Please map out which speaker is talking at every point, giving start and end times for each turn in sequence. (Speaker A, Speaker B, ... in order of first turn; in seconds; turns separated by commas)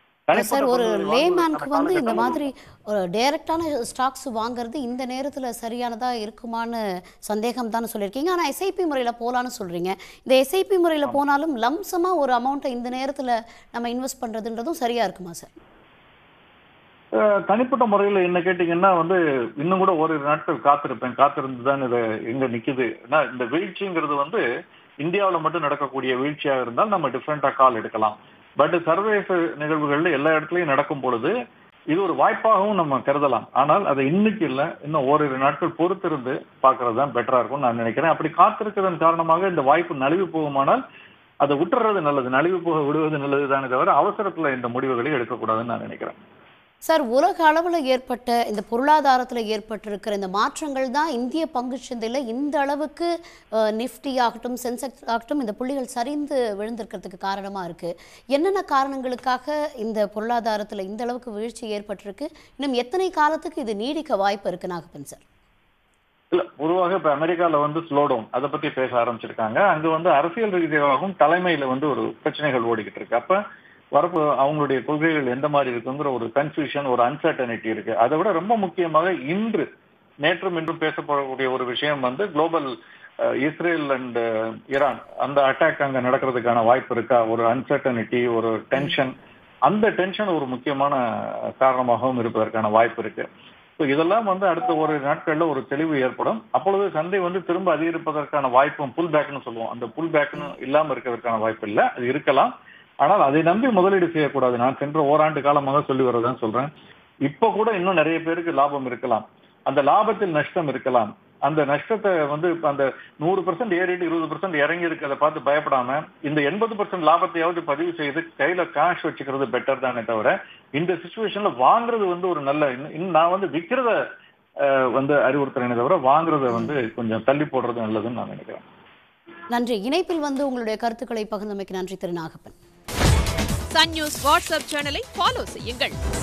Speaker A: 0.3-2.5, Speaker B: 0.3-15.5, Speaker A: 17.1-24.4, Speaker A: 25.0-31.3, Speaker A: 31.9-40.8, Speaker A: 41.4-46.2, Speaker B: 46.8-65.2, Speaker A: 66.3-73.4, Speaker A: 74.0-79.6, Speaker A: 80.2-82.7, Speaker A: 83.2-89.1, Speaker A: 89.7-91.0, Speaker A: 91.6-93.2, Speaker A: 93.8-102.5, Speaker A: 103.0-106.7, Speaker A: 107.3-124.0, Speaker A: 124.6-128.6, Speaker B: 126.5-126.8, Speaker B: 129.5-132.6, Speaker C: 133.7-136.0